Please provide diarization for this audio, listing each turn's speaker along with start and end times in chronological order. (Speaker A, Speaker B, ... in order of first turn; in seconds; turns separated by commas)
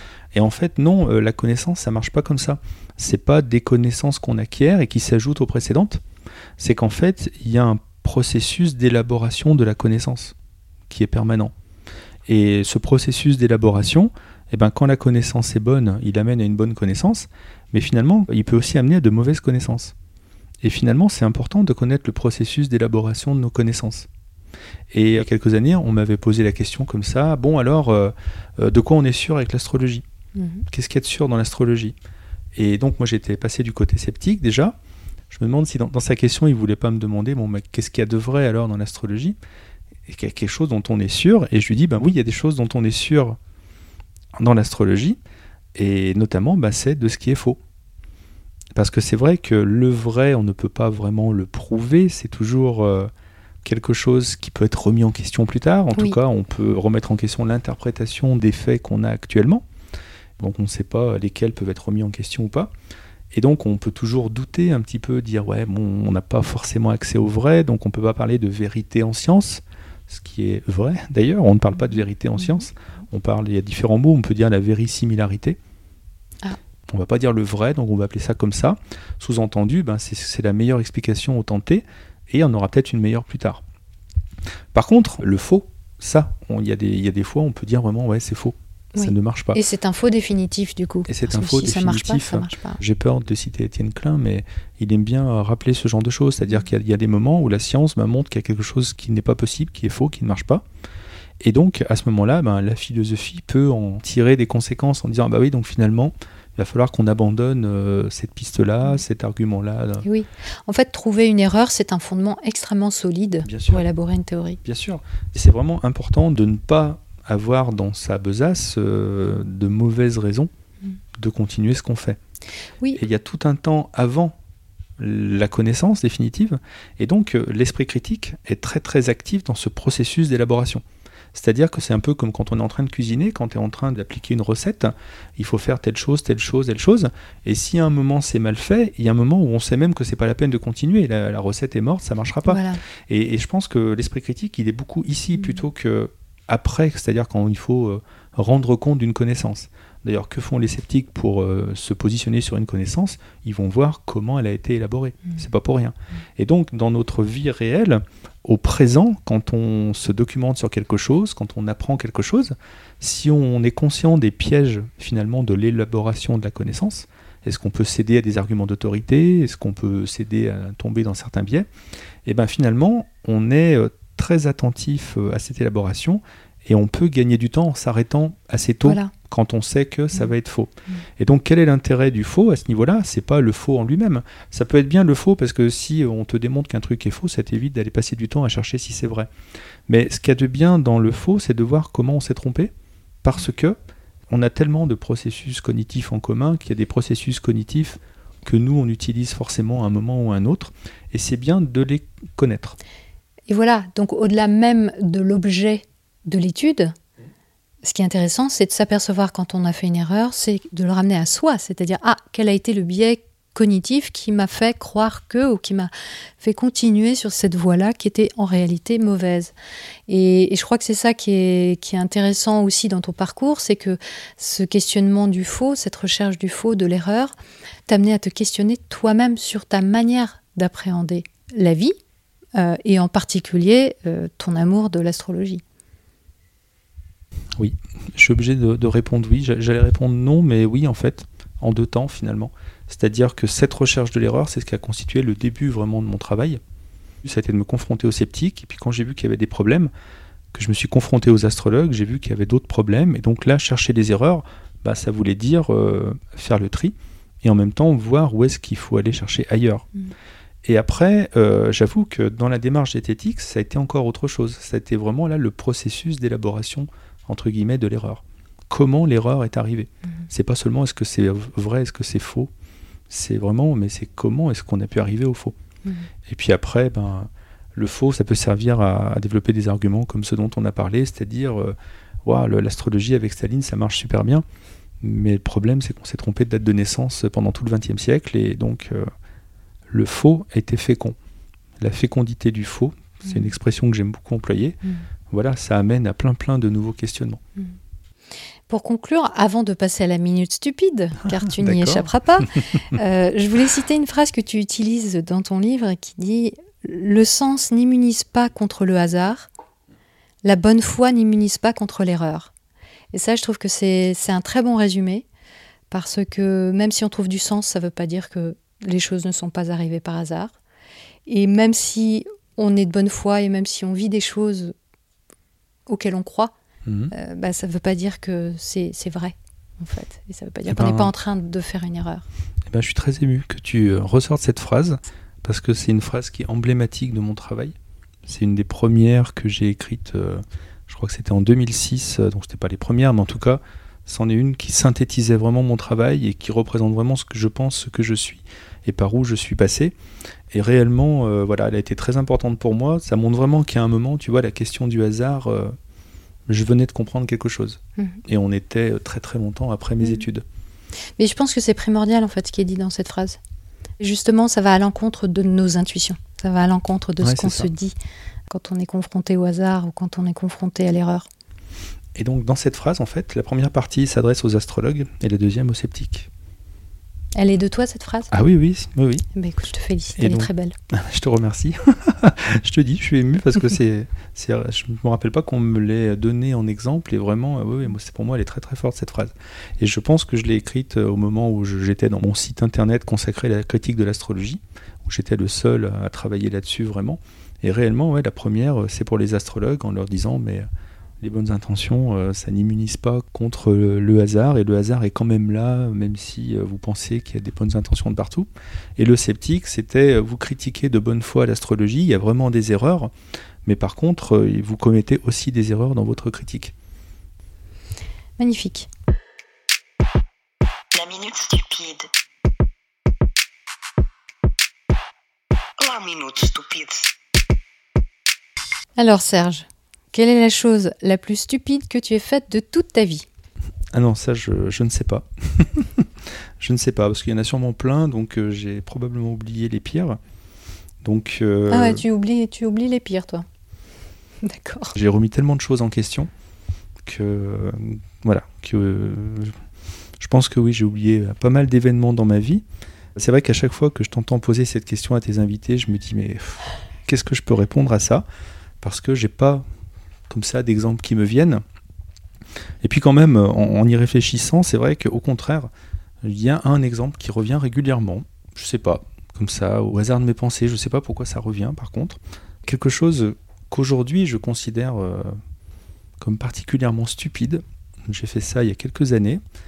Speaker A: 0.3-6.0, Speaker A: 6.6-10.3, Speaker A: 10.9-11.5, Speaker A: 12.3-19.9, Speaker A: 20.6-24.1, Speaker A: 24.9-30.1, Speaker B: 30.4-30.6, Speaker A: 30.7-31.9, Speaker A: 32.5-34.8, Speaker A: 35.3-39.4, Speaker A: 40.0-43.4, Speaker A: 44.3-45.2, Speaker A: 45.7-47.6, Speaker A: 48.7-53.1, Speaker A: 53.6-59.6, Speaker A: 60.4-62.7, Speaker A: 63.3-75.6, Speaker A: 76.9-83.6, Speaker A: 84.7-89.6, Speaker B: 89.0-92.8, Speaker A: 91.1-100.6, Speaker A: 101.4-110.0, Speaker B: 110.0-114.6, Speaker A: 113.5-113.8, Speaker A: 114.6-120.5, Speaker A: 121.2-122.2, Speaker A: 123.0-124.3, Speaker A: 125.0-171.7, Speaker B: 142.5-142.8, Speaker A: 172.2-189.3, Speaker B: 178.8-179.1, Speaker A: 189.9-192.7, Speaker A: 193.2-193.8, Speaker A: 194.3-202.8, Speaker B: 203.5-206.9, Speaker B: 207.8-219.5, Speaker B: 220.1-227.4, Speaker B: 227.9-231.9, Speaker B: 232.6-235.6, Speaker A: 237.6-246.6, Speaker A: 247.2-249.9, Speaker A: 250.5-259.9, Speaker A: 260.6-272.5, Speaker A: 273.1-275.6, Speaker A: 276.3-284.4, Speaker A: 285.0-289.1, Speaker A: 289.9-291.1, Speaker A: 291.8-294.8, Speaker B: 293.3-293.5, Speaker A: 295.3-297.4, Speaker B: 298.7-309.5, Speaker A: 301.3-302.1, Speaker B: 310.4-312.5, Speaker B: 313.1-315.3, Speaker B: 315.9-320.5, Speaker B: 321.3-324.7, Speaker B: 325.9-326.5, Speaker A: 326.9-327.1, Speaker B: 327.1-332.3, Speaker A: 330.7-331.1, Speaker A: 332.7-337.7, Speaker A: 338.3-349.9, Speaker A: 350.5-355.8, Speaker A: 356.5-360.4, Speaker B: 361.2-363.4, Speaker B: 364.0-367.9, Speaker A: 367.2-367.7, Speaker B: 368.5-371.3, Speaker A: 372.1-376.3, Speaker B: 377.4-378.3, Speaker A: 378.3-379.3, Speaker B: 379.3-380.7, Speaker A: 380.2-400.7, Speaker A: 401.2-413.1, Speaker A: 413.6-416.7, Speaker B: 418.4-418.9, Speaker C: 420.9-422.1, Speaker C: 425.8-427.1, Speaker B: 429.0-433.3, Speaker A: 433.9-440.2, Speaker A: 441.0-442.0, Speaker B: 441.7-443.4, Speaker B: 444.4-444.9, Speaker A: 444.9-446.3, Speaker A: 447.1-449.6, Speaker A: 450.2-452.6, Speaker A: 453.1-458.2, Speaker A: 458.8-459.6, Speaker A: 460.3-461.6, Speaker A: 462.8-465.7, Speaker A: 466.2-475.4, Speaker A: 476.2-479.4